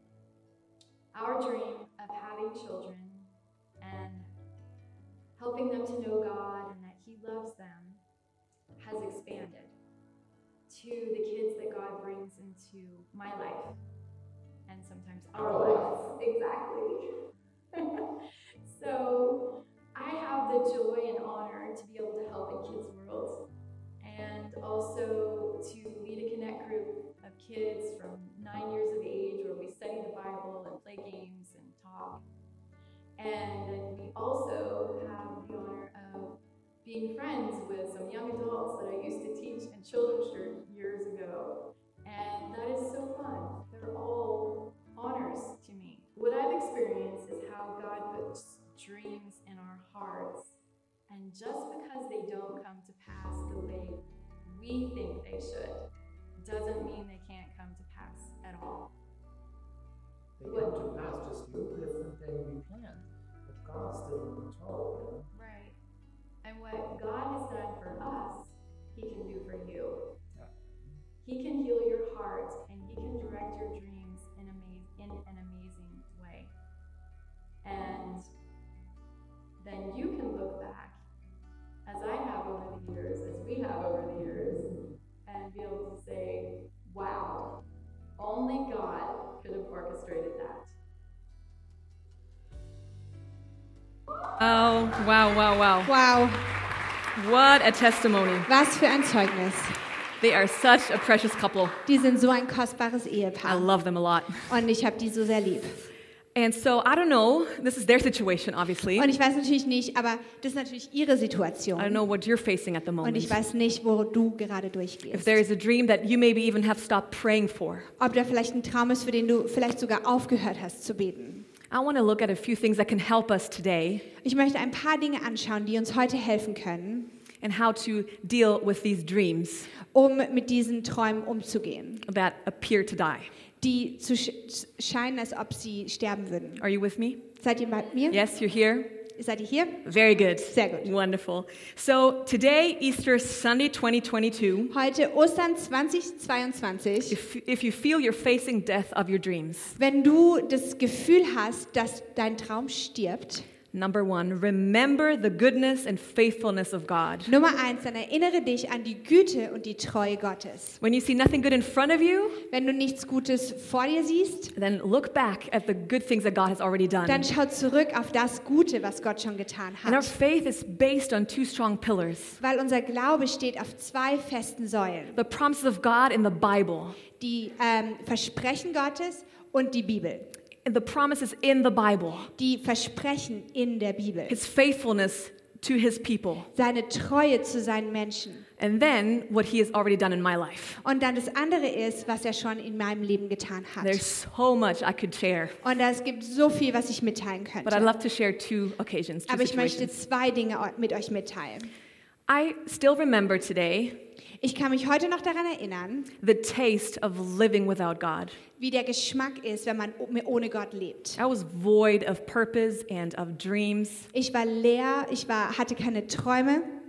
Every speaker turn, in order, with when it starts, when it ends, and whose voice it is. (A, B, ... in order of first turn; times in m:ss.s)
0:01.1-0:03.3 A
0:03.8-0:04.3 A
0:05.4-0:08.0 A
0:08.8-0:09.7 A
0:10.7-0:13.8 A
0:14.6-0:17.0 A
0:15.3-0:15.9 B
0:17.7-0:18.0 A
0:18.6-0:19.4 A
0:19.9-0:23.4 A
0:24.0-0:32.2 A
0:33.2-0:50.5 A
0:51.1-0:55.8 A
0:56.4-0:58.9 A
1:00.4-1:05.3 B
1:00.5-1:00.8 A
1:05.3-1:05.8 A
1:06.4-1:10.0 A
1:10.3-1:11.0 B
1:11.2-1:16.5 A
1:17.6-1:18.2 A
1:19.6-1:21.0 A
1:21.8-1:24.7 A
1:25.2-1:27.5 A
1:28.2-1:30.7 A
1:34.4-1:35.9 C
1:35.8-1:36.4 D
1:37.1-1:38.5 C
1:38.5-1:39.7 D
1:40.2-1:41.8 C
1:41.8-1:43.7 D
1:43.4-1:44.5 C
1:44.5-1:45.8 D
1:46.3-1:49.1 C
1:48.9-1:52.0 D
1:51.8-1:53.4 C
1:53.0-1:55.4 D
1:55.1-1:57.9 C
1:58.0-2:01.5 D
2:01.7-2:04.0 C
2:04.2-2:07.1 D
2:07.4-2:09.7 C
2:09.9-2:12.0 D
2:12.0-2:13.3 C
2:13.6-2:16.6 D
2:16.6-2:17.2 C
2:17.4-2:18.2 D
2:18.1-2:18.9 C
2:19.1-2:19.8 D
2:19.8-2:24.7 C
2:20.4-2:20.9 D
2:24.7-2:27.2 D
2:27.1-2:29.8 C
2:29.8-2:33.5 D
2:33.7-2:37.3 C
2:37.3-2:40.8 D
2:40.8-2:42.4 C
2:42.5-2:44.5 D
2:44.5-2:47.3 C
2:47.0-2:50.1 D
2:49.8-2:52.4 C
2:52.4-2:55.2 D
2:55.1-2:57.0 C
2:57.1-3:00.3 D
3:00.6-3:02.3 C
3:02.4-3:04.4 D
3:04.3-3:06.5 C
3:06.5-3:08.4 D
3:08.6-3:10.8 C
3:10.8-3:14.0 D
3:13.8-3:15.6 C
3:15.6-3:17.9 D
3:17.6-3:19.9 C
3:19.3-3:21.7 D
3:22.3-3:24.0 C
3:24.4-3:26.1 D
3:26.2-3:28.4 C
3:28.6-3:31.2 D
3:31.2-3:34.1 C
3:34.1-3:36.7 D